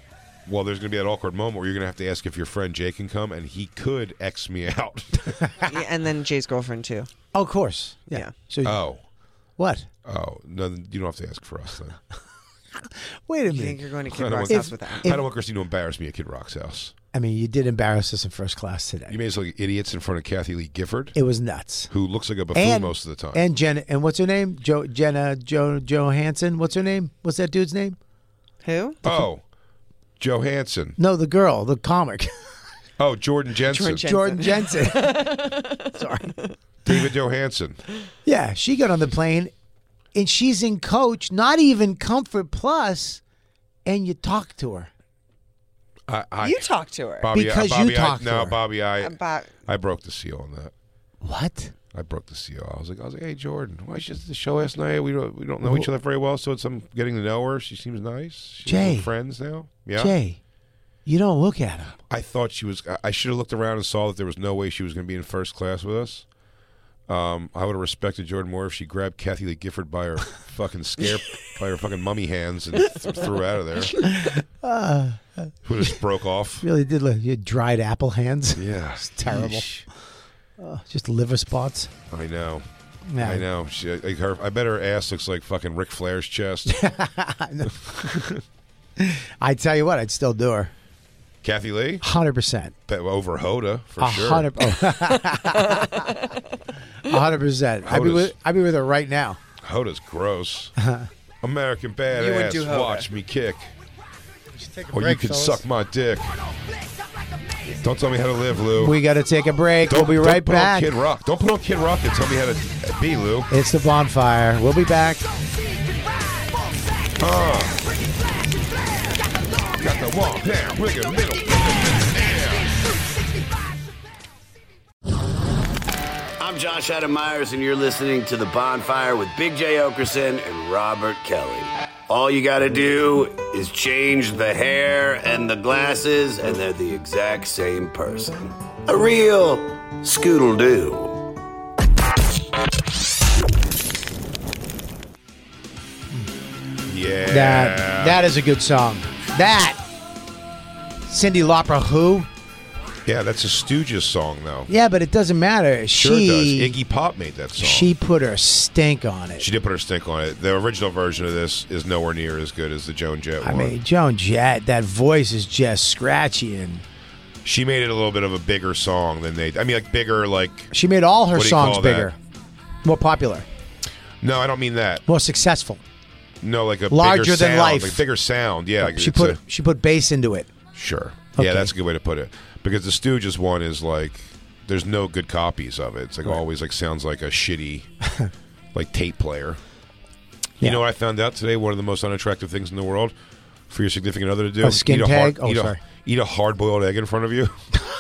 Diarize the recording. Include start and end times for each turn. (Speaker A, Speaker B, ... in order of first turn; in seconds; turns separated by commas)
Speaker A: 0.5-5.6, Speaker B: 5.7-7.1, Speaker C: 7.3-8.8, Speaker A: 8.6-9.0, Speaker C: 9.6-9.9, Speaker A: 10.1-12.0, Speaker C: 12.8-13.9, Speaker B: 13.5-15.1, Speaker A: 14.1-16.9, Speaker C: 14.5-15.2, Speaker C: 17.1-19.2, Speaker A: 19.1-21.2, Speaker C: 21.1-21.9, Speaker A: 21.9-23.4, Speaker C: 22.5-28.0, Speaker B: 28.6-29.0, Speaker A: 29.0-29.4, Speaker A: 30.2-31.0, Speaker C: 31.0-32.5, Speaker A: 33.0-34.0, Speaker B: 33.7-35.8, Speaker C: 34.0-36.4, Speaker A: 36.9-37.8, Speaker C: 38.2-39.5, Speaker C: 40.1-43.2, Speaker C: 43.9-44.9, Speaker A: 46.1-50.7, Speaker B: 46.4-47.3, Speaker C: 47.3-48.6, Speaker B: 49.0-49.5, Speaker C: 51.2-51.7, Speaker A: 51.9-60.1, Speaker C: 55.6-55.9, Speaker C: 58.6-59.1, Speaker C: 60.0-60.4, Speaker C: 61.1-62.0, Speaker A: 62.1-66.3, Speaker A: 67.1-74.0, Speaker C: 74.0-76.0, Speaker A: 75.6-76.6, Speaker C: 76.6-79.8, Speaker A: 78.6-79.8, Speaker C: 80.6-81.9, Speaker A: 82.1-82.6, Speaker C: 83.1-83.5, Speaker A: 83.2-86.9, Speaker C: 86.7-87.9, Speaker A: 88.0-88.4, Speaker C: 89.0-90.7, Speaker A: 91.4-92.1, Speaker C: 92.0-92.8, Speaker A: 92.9-94.5, Speaker C: 94.0-96.2, Speaker C: 97.0-99.4, Speaker A: 97.9-98.3, Speaker A: 99.6-100.7, Speaker C: 100.8-101.1, Speaker A: 101.4-103.7, Speaker D: 102.1-103.0, Speaker D: 104.5-105.6, Speaker A: 104.9-106.4, Speaker A: 107.8-109.0, Speaker C: 108.8-110.9, Speaker A: 109.8-113.5, Speaker C: 113.5-115.3, Speaker A: 117.2-117.8, Speaker A: 119.8-122.7, Speaker E: 126.4-141.2, Speaker A: 146.9-148.2, Speaker C: 147.3-149.8, Speaker C: 151.1-152.3, Speaker A: 153.1-154.7, Speaker C: 154.7-156.8, Speaker A: 155.9-157.9, Speaker C: 157.6-159.5, Speaker A: 159.4-163.8, Speaker C: 163.4-166.8, Speaker A: 167.4-170.7, Speaker C: 170.7-172.2, Speaker A: 171.3-172.1, Speaker C: 172.8-173.5, Speaker A: 174.2-175.0, Speaker C: 175.1-175.8, Speaker A: 176.4-179.4, Speaker C: 176.9-178.0, Speaker C: 178.8-180.5, Speaker A: 180.7-187.9, Speaker C: 181.4-181.7, Speaker A: 188.7-189.6, Speaker A: 190.6-193.1, Speaker A: 193.7-197.6, Speaker C: 194.6-195.8